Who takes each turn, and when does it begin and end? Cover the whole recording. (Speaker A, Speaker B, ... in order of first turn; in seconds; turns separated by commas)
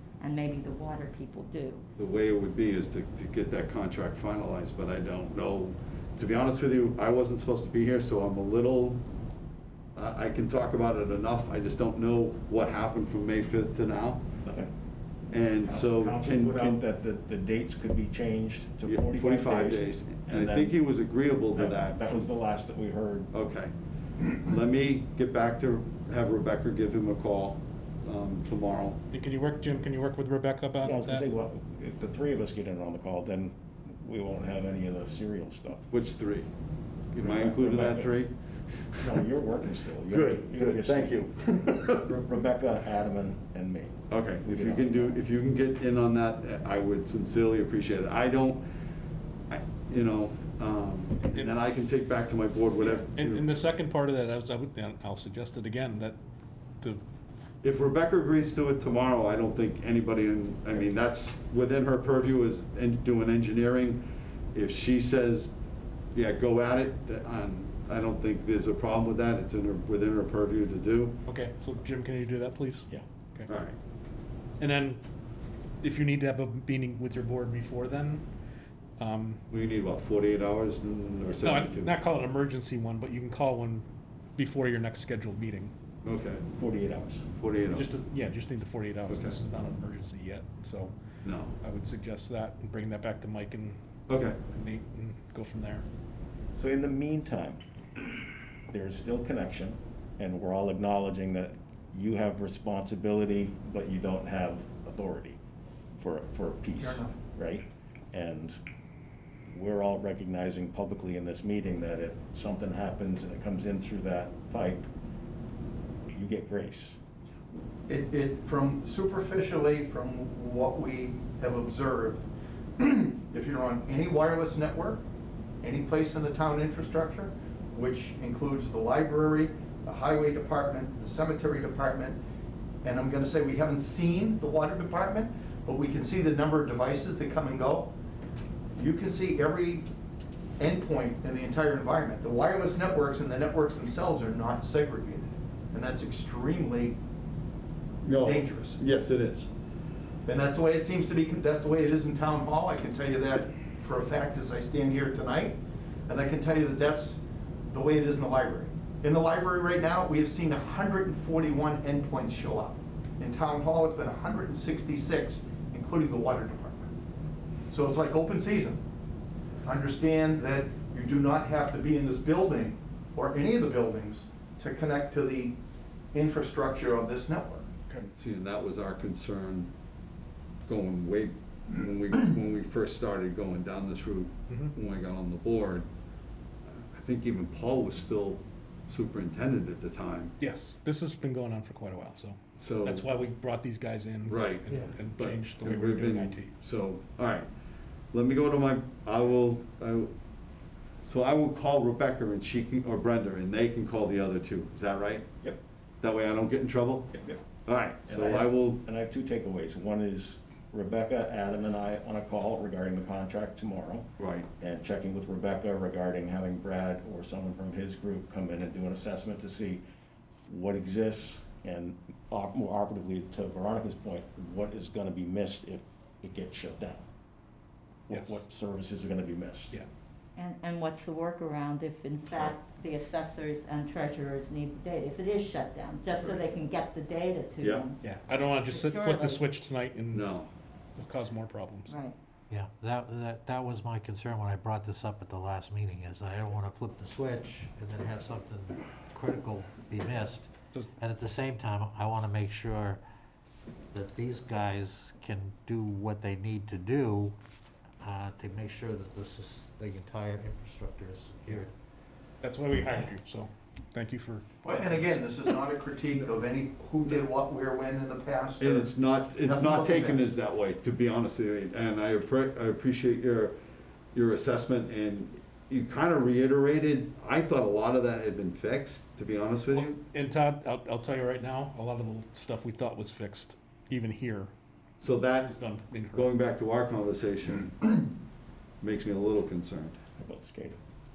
Speaker A: 0.2-1.8, Speaker B: 2.0-9.0, Speaker B: 9.9-14.2, Speaker C: 14.4-14.7, Speaker B: 15.3-16.8, Speaker C: 15.6-20.9, Speaker B: 18.8-22.2, Speaker C: 21.5-23.3, Speaker B: 23.3-29.0, Speaker D: 29.1-31.2, Speaker C: 30.8-35.9, Speaker B: 35.9-36.5, Speaker B: 37.1-38.3, Speaker C: 37.2-38.1, Speaker B: 38.9-39.2, Speaker C: 39.0-41.3, Speaker B: 40.1-42.2, Speaker C: 42.0-45.2, Speaker B: 44.1-48.6, Speaker B: 49.5-53.4, Speaker D: 52.8-56.2, Speaker B: 57.6-65.5, Speaker B: 66.1-71.2, Speaker D: 71.2-73.5, Speaker B: 73.5-73.7, Speaker D: 74.6-75.0, Speaker D: 75.8-78.2, Speaker D: 79.0-79.4, Speaker B: 79.5-81.9, Speaker D: 81.3-83.8, Speaker D: 84.4-85.7, Speaker B: 86.0-86.4, Speaker C: 86.6-87.3, Speaker B: 87.4-87.9, Speaker D: 87.7-90.9, Speaker B: 89.1-89.4, Speaker B: 91.2-91.5, Speaker D: 91.6-93.8, Speaker B: 94.1-94.4, Speaker D: 94.5-95.8, Speaker C: 96.5-97.6, Speaker C: 98.7-105.4, Speaker C: 106.0-108.6, Speaker E: 106.8-107.2, Speaker C: 109.5-114.9, Speaker C: 116.1-117.0, Speaker E: 117.9-122.3, Speaker E: 122.8-125.0, Speaker E: 125.6-132.2, Speaker E: 132.8-137.9, Speaker E: 138.7-139.9, Speaker E: 140.6-147.0, Speaker B: 148.0-149.5, Speaker E: 148.1-148.8, Speaker E: 150.2-166.9, Speaker E: 167.7-168.8, Speaker E: 169.6-175.6, Speaker E: 176.1-177.7, Speaker B: 178.0-179.7, Speaker B: 180.7-185.8, Speaker B: 186.7-190.3, Speaker D: 190.4-196.5, Speaker B: 192.6-193.1, Speaker B: 194.2-197.5, Speaker B: 198.1-200.1, Speaker B: 201.0-205.3, Speaker B: 206.0-208.8, Speaker C: 207.1-207.5, Speaker C: 208.1-219.8, Speaker B: 214.2-214.5, Speaker C: 220.5-227.1, Speaker C: 228.1-229.8, Speaker D: 228.1-228.4, Speaker A: 230.3-238.0, Speaker D: 238.0-240.3, Speaker A: 238.6-239.4, Speaker B: 240.1-240.5, Speaker D: 241.0-241.9, Speaker A: 241.9-242.2, Speaker F: 242.5-253.0, Speaker F: 253.9-257.3, Speaker F: 258.0-261.7, Speaker D: 262.4-265.2, Speaker E: 264.6-270.2, Speaker B: 268.6-273.5, Speaker B: 274.1-280.0, Speaker D: 279.7-284.5, Speaker B: 285.0-285.6, Speaker D: 285.5-286.3, Speaker B: 286.1-288.0, Speaker B: 288.8-290.0, Speaker C: 290.2-290.8